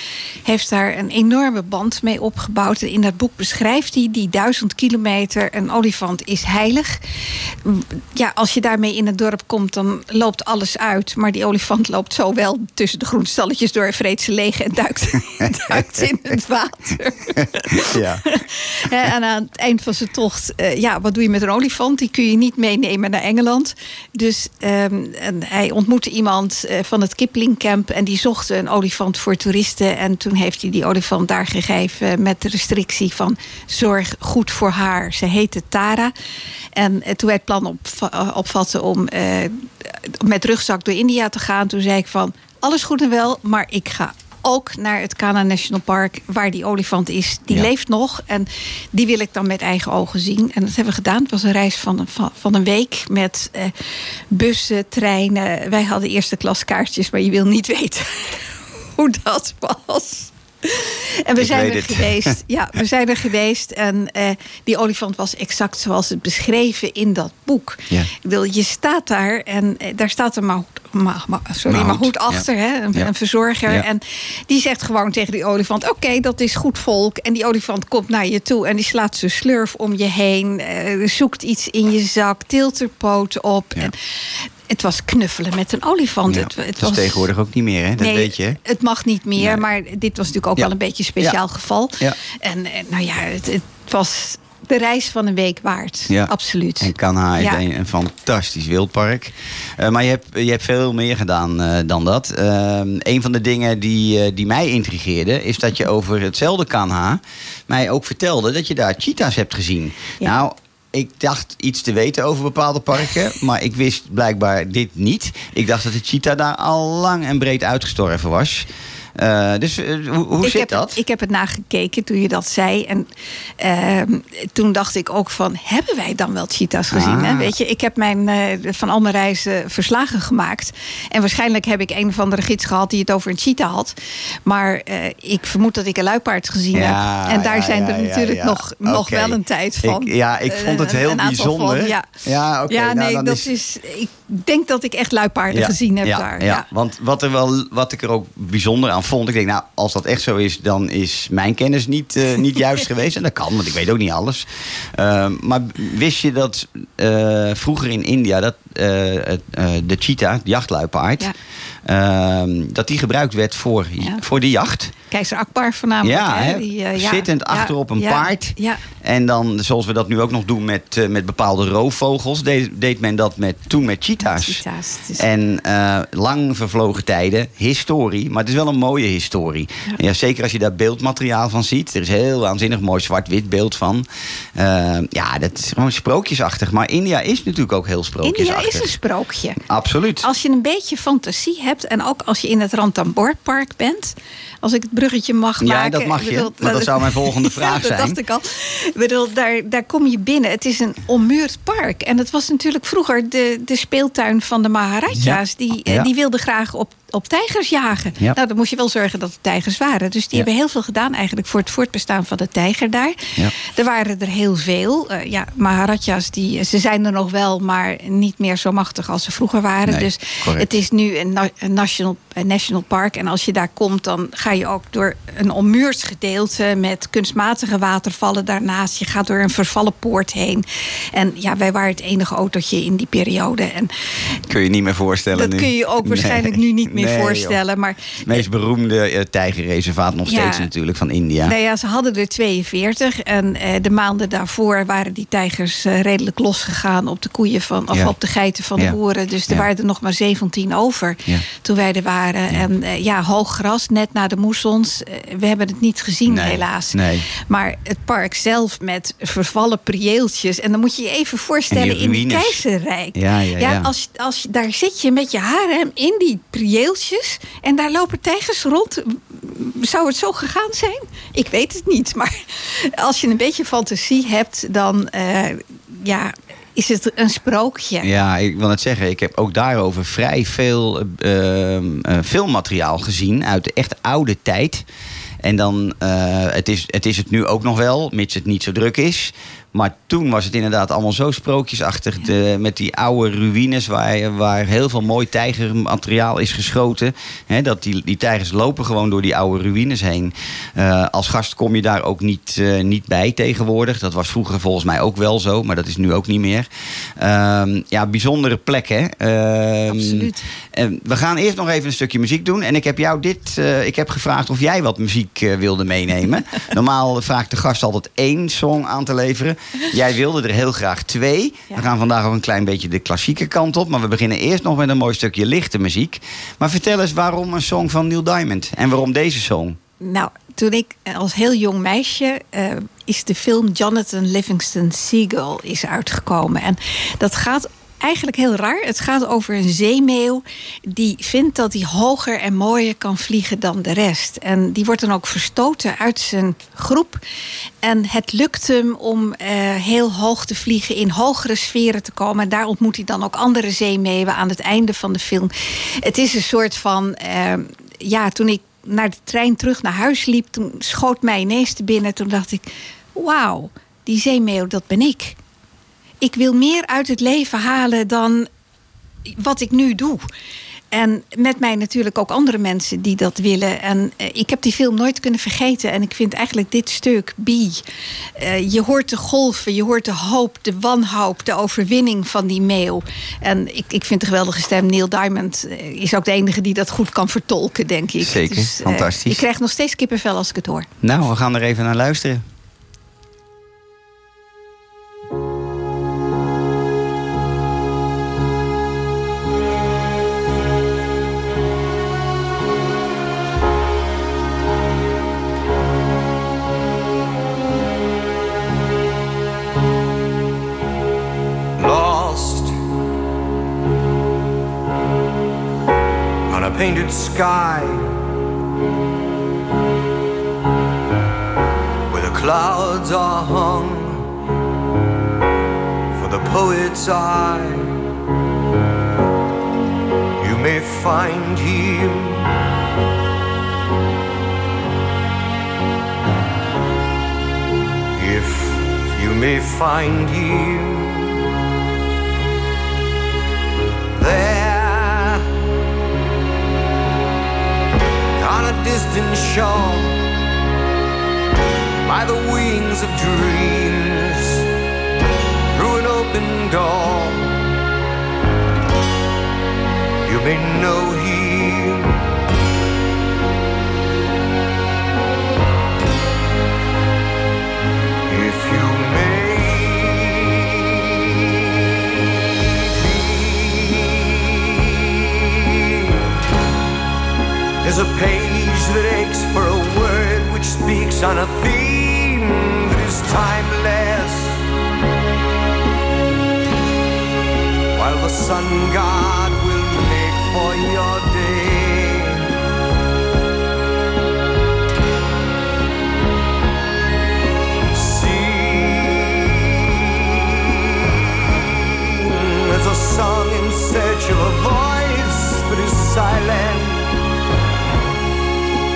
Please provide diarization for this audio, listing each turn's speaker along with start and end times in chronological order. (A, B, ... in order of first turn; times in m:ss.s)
0:00.4-0:07.0 A
0:07.6-0:36.1 A
0:15.4-0:15.8 B
0:17.7-0:18.2 B
0:36.8-0:53.7 A
0:54.3-1:27.3 A
1:01.4-1:02.3 B
1:11.7-1:13.1 B
1:26.3-1:28.6 B
1:28.0-1:37.6 A
1:29.4-1:29.6 B
1:30.6-1:31.4 B
1:36.1-2:01.0 B
2:00.4-2:03.1 A
2:03.6-2:13.9 A
2:06.9-2:07.5 B
2:14.4-2:22.1 A
2:16.7-2:23.5 B
2:22.7-2:26.6 A
2:25.5-2:41.3 B
2:41.8-2:44.9 B
2:45.1-2:48.8 A
2:46.0-2:54.6 B
2:54.2-2:55.2 A
2:55.1-3:08.9 B
3:08.2-3:09.6 A
3:09.6-3:10.3 B
3:10.2-3:53.9 A
3:15.6-3:18.2 B
3:25.1-3:26.1 B
3:39.9-3:40.7 B
3:54.5-3:57.6 B
3:55.3-3:58.4 A
3:58.2-4:01.5 B
4:00.2-4:00.7 A
4:01.4-4:38.1 A
4:16.3-4:17.2 B
4:21.7-4:22.6 B
4:23.1-4:23.9 B
4:38.0-4:44.8 B
4:45.4-5:29.8 B
5:09.9-5:10.4 A
5:30.0-5:47.2 A
5:47.8-6:05.4 A
6:06.2-6:08.5 A
6:09.3-6:10.2 A
6:10.9-6:17.8 A
6:18.4-6:30.9 A
6:28.2-6:29.4 B
6:31.0-6:32.4 B
6:51.8-6:52.7 C
6:56.5-6:58.2 C
7:02.1-7:04.3 C
7:06.1-7:08.0 C
7:10.4-7:12.5 C
7:18.2-7:21.3 C
7:24.1-7:25.4 C
7:28.4-7:30.2 C
7:32.0-7:34.7 C
7:35.7-7:37.7 C
7:40.2-7:42.2 C
7:48.3-7:50.8 C
7:53.0-7:54.5 C
7:57.8-8:04.6 C
8:07.9-8:12.4 C
8:17.9-8:19.9 C
8:22.2-8:27.1 C